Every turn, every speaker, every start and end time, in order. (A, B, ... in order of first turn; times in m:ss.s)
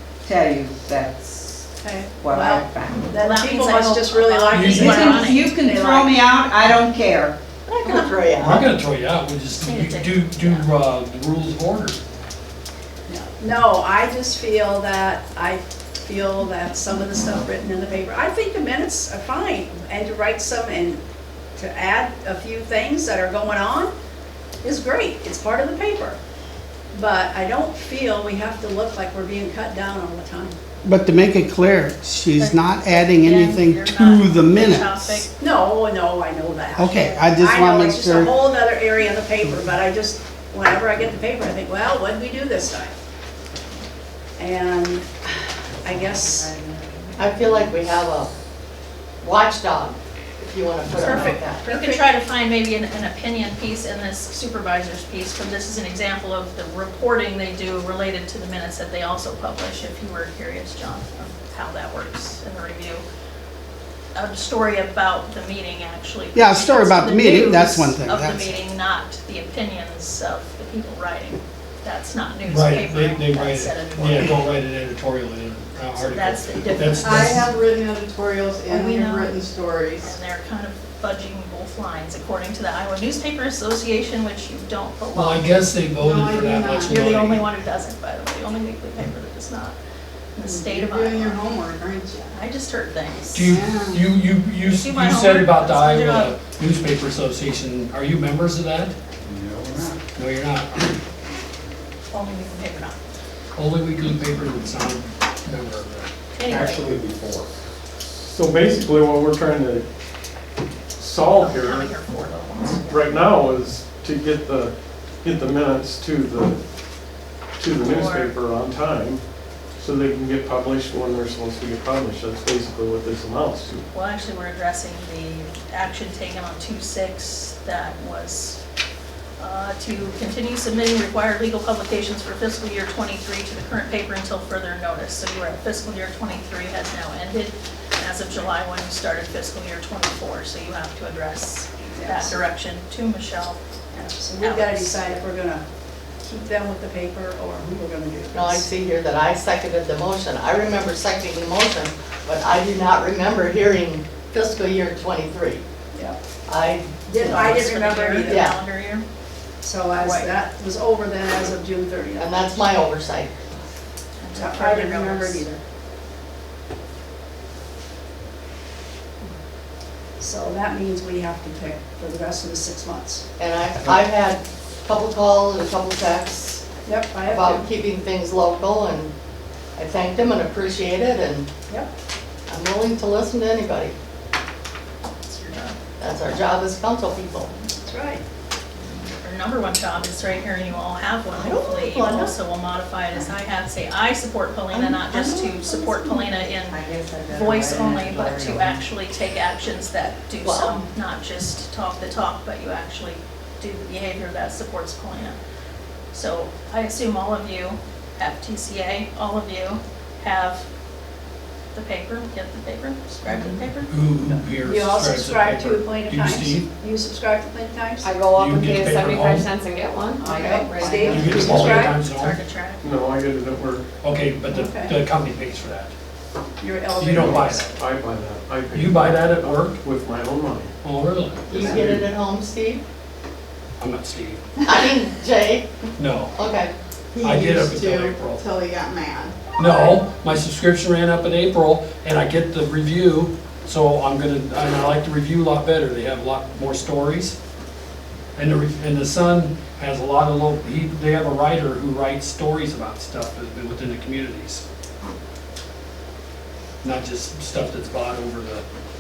0:00.2-0:01.7 A
0:01.8-0:06.2 B
0:02.2-0:03.1 A
0:03.2-0:05.6 C
0:04.5-0:05.1 D
0:04.6-0:05.0 E
0:04.8-0:07.4 A
0:07.6-0:08.7 E
0:08.4-0:12.0 D
0:09.6-0:10.7 C
0:13.1-0:21.0 B
0:21.5-0:23.9 B
0:24.6-0:26.2 B
0:26.9-0:30.6 B
0:30.8-0:35.1 F
0:32.4-0:35.3 C
0:35.4-0:43.0 B
0:36.8-0:38.3 F
0:44.4-0:46.5 B
0:47.2-0:48.3 E
0:49.2-0:51.7 E
0:50.9-1:03.0 C
0:51.2-0:52.0 B
1:04.1-1:14.4 C
1:06.3-1:08.5 F
1:12.4-1:17.5 D
1:16.0-1:17.5 C
1:17.0-1:20.1 G
1:18.7-1:25.5 C
1:25.1-1:27.4 D
1:26.1-1:26.5 B
1:26.8-1:29.8 C
1:30.3-1:31.5 C
1:30.5-1:32.2 G
1:32.1-1:33.5 C
1:33.3-1:38.9 D
1:33.5-1:34.0 F
1:34.6-1:36.4 C
1:40.1-1:40.9 D
1:42.1-1:43.0 C
1:43.6-1:47.0 D
1:46.3-1:46.9 C
1:48.0-1:49.8 H
1:51.0-1:51.9 H
1:51.2-1:53.3 C
1:52.8-1:56.6 H
1:57.6-1:59.2 H
1:57.8-1:58.3 C
1:59.8-2:03.9 H
2:03.9-2:08.6 C
2:09.4-2:23.6 C
2:21.9-2:22.4 B
2:23.9-2:25.6 B
2:24.4-2:25.2 C
2:26.2-2:28.7 B
2:28.3-2:35.6 E
2:35.9-2:36.2 B
2:36.4-2:37.6 E
2:37.0-2:38.4 B
2:37.4-2:39.0 C
2:38.2-2:38.5 E
2:39.6-2:42.3 B
2:39.9-2:40.3 C
2:42.2-2:43.4 E
2:44.2-2:45.5 C
2:44.3-2:45.6 B
2:50.2-2:53.2 B
2:53.4-2:59.1 E
2:56.8-2:57.7 B
2:59.8-3:01.5 E
3:02.5-3:03.9 E
3:05.2-3:05.8 C
3:06.0-3:07.5 E
3:07.8-3:08.2 B
3:09.2-3:25.4 C
3:11.3-3:12.3 E
3:14.7-3:16.5 E
3:16.7-3:18.8 A
3:20.4-3:20.9 E
3:26.1-3:30.6 C
3:31.7-3:33.9 C
3:33.9-3:36.7 D
3:34.7-3:38.1 B
3:38.0-3:41.3 I
3:38.3-3:39.5 D
3:40.2-3:42.0 B
3:40.2-3:41.3 A
3:41.1-3:42.4 D
3:41.7-3:42.8 C
3:42.8-3:43.9 H
3:44.0-3:45.9 D
3:44.5-3:44.9 B
3:46.6-3:47.8 B
3:46.9-3:47.7 D
3:47.7-3:50.7 H
3:48.7-3:49.8 D
3:50.8-3:51.6 D
3:51.5-3:52.8 E
3:51.5-3:51.9 G
3:51.6-3:52.0 H
3:53.8-3:54.4 D
3:54.6-3:55.7 E
3:56.0-3:56.3 D
3:56.3-3:56.7 E
3:57.2-3:59.4 G
3:57.2-3:58.4 D
3:59.5-4:07.4 D
4:08.4-4:14.6 D
4:16.8-4:18.6 D